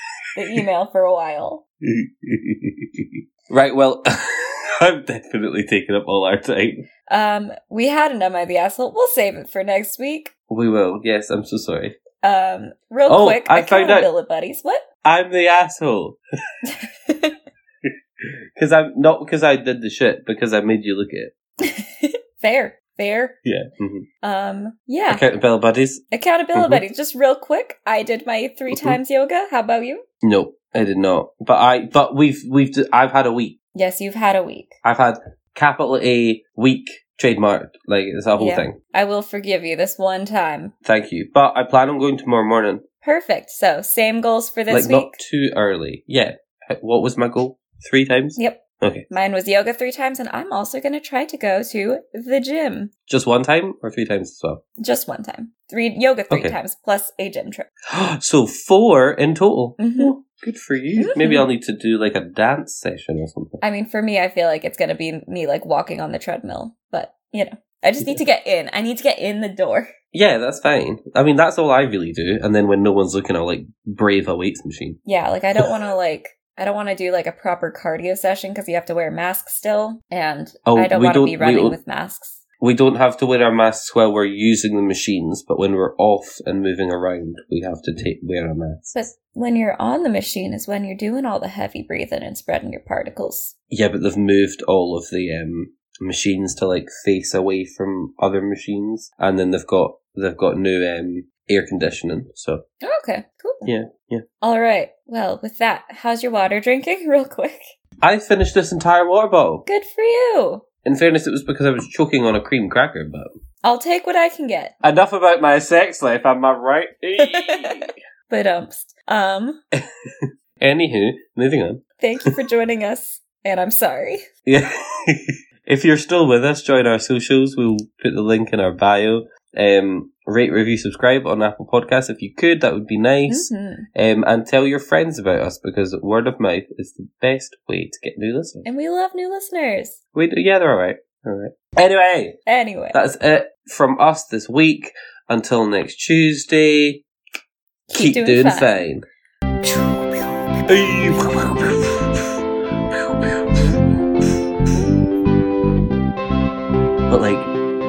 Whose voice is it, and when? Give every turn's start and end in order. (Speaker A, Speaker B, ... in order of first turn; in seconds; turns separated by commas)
Speaker A: 0.3-1.6, Speaker B: 1.9-6.8, Speaker A: 7.1-10.3, Speaker B: 10.5-12.0, Speaker A: 12.2-14.8, Speaker B: 13.1-14.1, Speaker B: 15.0-16.2, Speaker A: 16.7-17.3, Speaker B: 18.6-21.3, Speaker A: 21.6-23.4, Speaker B: 23.4-24.1, Speaker A: 24.2-25.2, Speaker B: 25.1-26.0, Speaker A: 26.1-30.0, Speaker B: 26.5-26.8, Speaker B: 28.7-29.0, Speaker B: 30.2-33.6, Speaker A: 33.7-34.7, Speaker B: 34.8-38.8, Speaker A: 38.4-40.7, Speaker B: 40.8-42.8, Speaker A: 43.0-45.1, Speaker B: 44.7-49.1, Speaker A: 48.4-52.9, Speaker B: 53.1-54.6, Speaker A: 54.8-57.7, Speaker B: 56.3-56.5, Speaker B: 57.9-63.6, Speaker A: 59.8-60.1, Speaker A: 61.0-61.5, Speaker A: 63.6-69.9, Speaker B: 70.1-75.0, Speaker A: 75.0-82.4, Speaker B: 80.7-81.8, Speaker B: 82.6-89.0, Speaker A: 88.9-93.5, Speaker B: 93.7-102.6, Speaker A: 102.8-103.7, Speaker B: 103.6-104.2, Speaker A: 104.4-107.7, Speaker B: 108.0-109.7, Speaker A: 109.7-110.6, Speaker B: 110.8-113.3, Speaker A: 113.6-114.7, Speaker B: 114.8-117.9, Speaker A: 117.2-119.6, Speaker B: 120.2-121.8, Speaker A: 122.0-124.2, Speaker B: 124.5-138.6, Speaker A: 133.3-133.9, Speaker A: 138.6-140.0, Speaker B: 140.1-142.4, Speaker A: 142.5-143.0, Speaker B: 142.9-147.0, Speaker A: 147.9-148.7, Speaker B: 147.9-149.0, Speaker B: 150.7-152.4, Speaker B: 152.9-153.8, Speaker B: 157.1-157.5